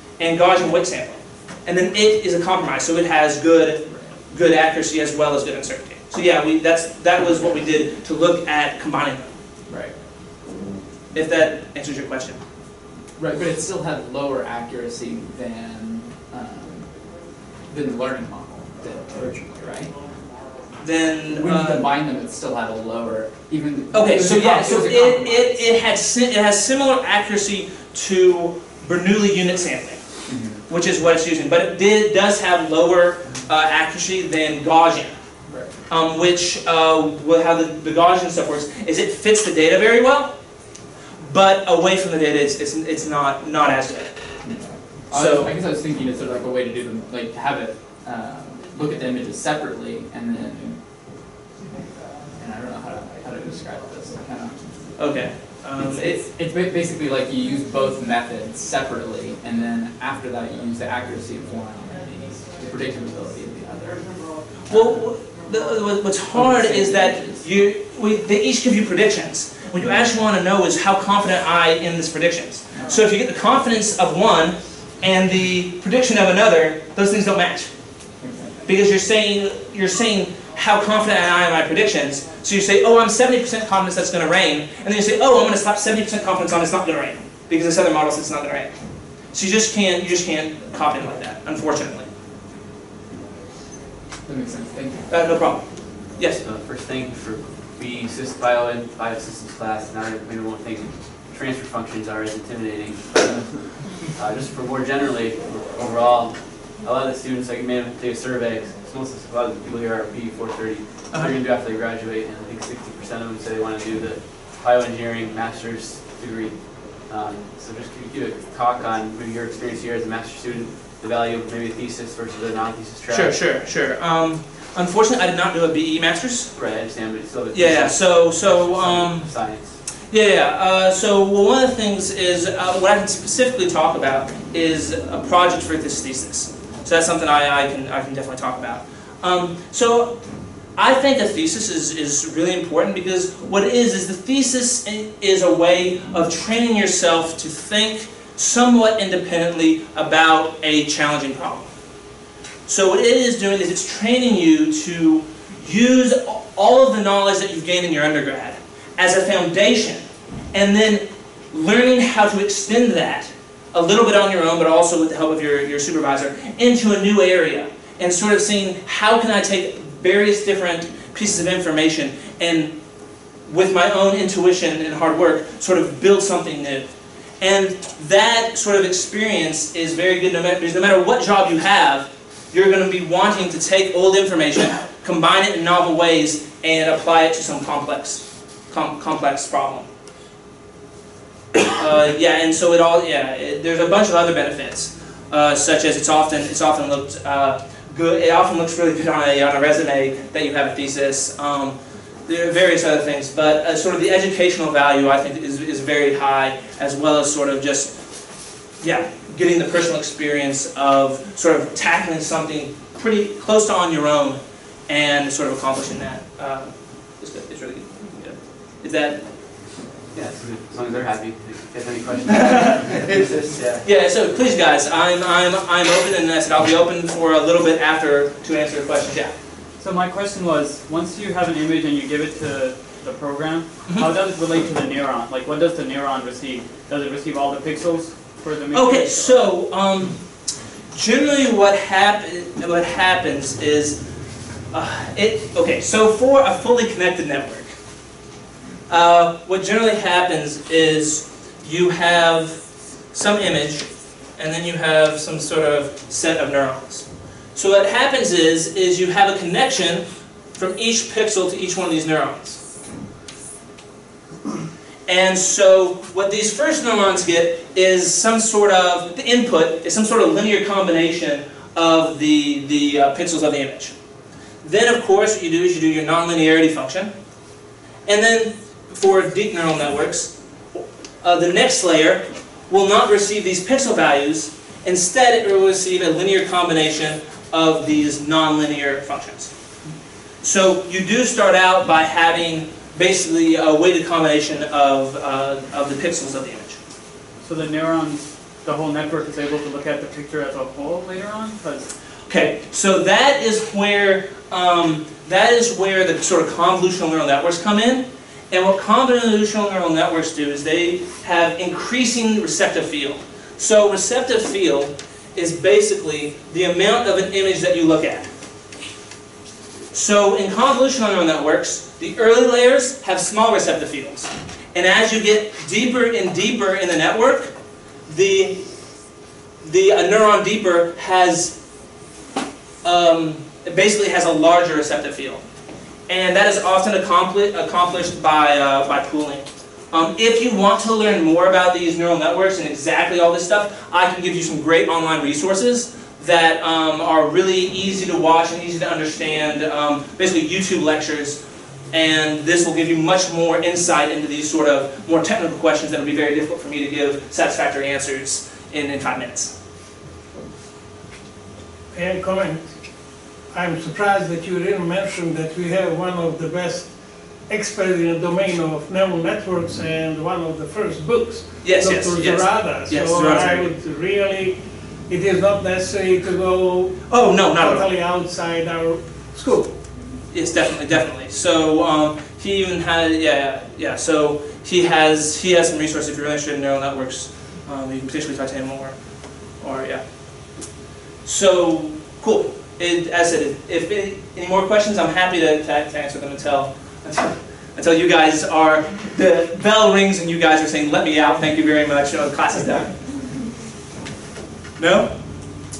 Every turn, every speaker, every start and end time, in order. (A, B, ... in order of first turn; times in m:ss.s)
0:00.2-0:09.3 A
0:09.7-0:09.9 B
0:11.1-0:12.4 A
0:13.2-0:16.9 B
0:17.7-0:19.9 B
0:20.8-0:21.9 A
0:21.4-0:25.6 B
0:23.9-0:30.0 A
0:30.3-0:30.6 B
0:30.7-0:35.2 A
0:35.5-0:35.7 B
0:35.9-0:40.3 A
0:41.2-0:44.2 A
0:44.4-0:50.8 B
0:45.1-0:45.5 A
0:52.4-0:54.6 B
0:55.0-0:56.2 A
0:55.8-1:04.0 B
1:04.7-1:17.7 A
1:06.3-1:07.4 B
1:18.2-1:18.6 B
1:18.6-1:28.7 A
1:29.3-1:32.1 A
1:34.2-1:35.1 B
1:35.1-1:36.4 A
1:36.4-2:03.4 C
2:03.1-2:06.6 A
2:06.6-2:09.8 C
2:07.5-2:09.3 A
2:10.1-2:20.2 A
2:20.8-2:31.7 A
2:32.7-2:52.7 A
2:53.4-3:09.9 A
3:11.7-3:28.0 A
3:28.8-3:39.2 A
3:40.1-3:43.8 C
3:42.3-3:49.3 A
3:49.8-3:59.4 D
3:58.7-4:00.2 A
4:00.9-4:04.0 A
4:04.7-4:07.7 A
4:08.9-4:12.6 A
4:13.1-4:22.6 A
4:25.1-4:33.9 A
4:34.6-4:37.1 A
4:38.0-4:49.5 A
4:50.4-4:56.8 A
4:57.4-5:01.9 D
5:02.3-5:18.3 A
5:19.9-5:27.5 A
5:28.1-5:28.6 A
5:29.6-5:31.6 A
5:32.8-5:35.4 A
5:36.1-5:51.4 A
5:51.9-5:59.6 A
6:01.9-6:02.7 E
6:03.5-6:06.9 E
6:07.5-6:19.7 E
6:11.6-6:13.7 A
6:17.1-6:17.9 A
6:20.3-6:29.0 A
6:29.6-6:30.0 A
6:31.2-6:42.9 A
6:44.8-6:45.1 A